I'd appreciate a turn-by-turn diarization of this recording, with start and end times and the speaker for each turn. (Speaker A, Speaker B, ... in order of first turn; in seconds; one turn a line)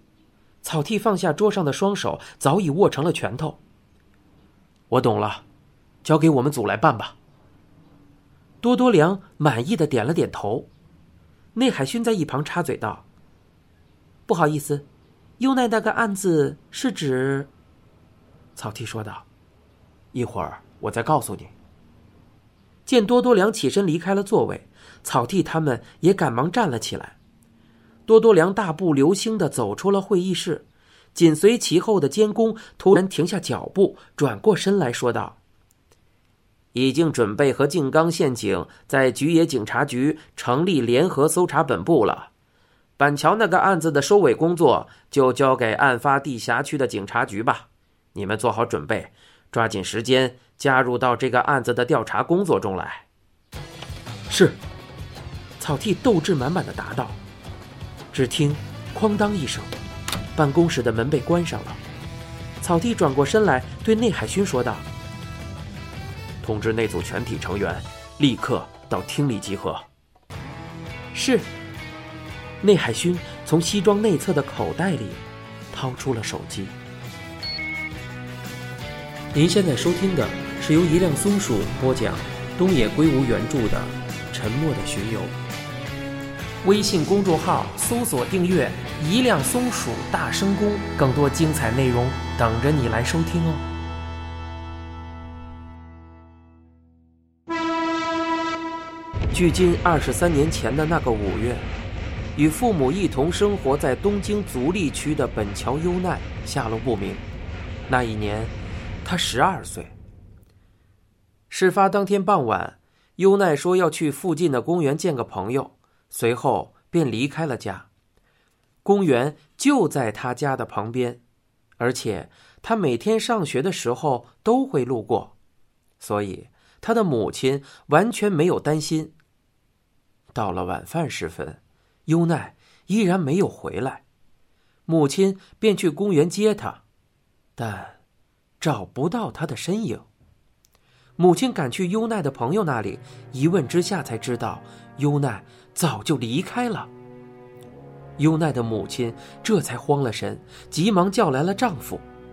Speaker A: 0.6-3.6
Speaker A: 4.9-5.4
Speaker A: 6.0-7.2
Speaker A: 8.6-10.7
Speaker A: 11.5-13.0
Speaker A: 14.3-14.9
Speaker A: 15.4-17.5
Speaker A: 18.6-19.3
Speaker A: 20.1-21.5
Speaker A: 22.9-27.2
Speaker A: 28.1-35.4
Speaker A: 36.7-42.3
Speaker A: 43.0-53.1
Speaker A: 54.3-54.6
Speaker A: 55.6-57.2
Speaker A: 58.1-59.7
Speaker A: 60.3-61.8
Speaker A: 62.6-64.8
Speaker A: 66.4-69.9
Speaker A: 71.1-71.5
Speaker A: 72.6-76.8
Speaker A: 79.3-85.3
Speaker A: 86.6-93.6
Speaker A: 99.3-101.7
Speaker A: 102.3-107.2
Speaker A: 107.9-108.5
Speaker A: 109.0-109.9
Speaker A: 111.5-117.9
Speaker A: 118.8-121.2
Speaker A: 121.8-125.3
Speaker A: 126.0-129.1
Speaker A: 130.3-134.0
Speaker A: 134.9-136.8
Speaker A: 137.6-138.0
Speaker A: 138.6-140.1
Speaker A: 141.2-146.9
Speaker A: 148.2-152.0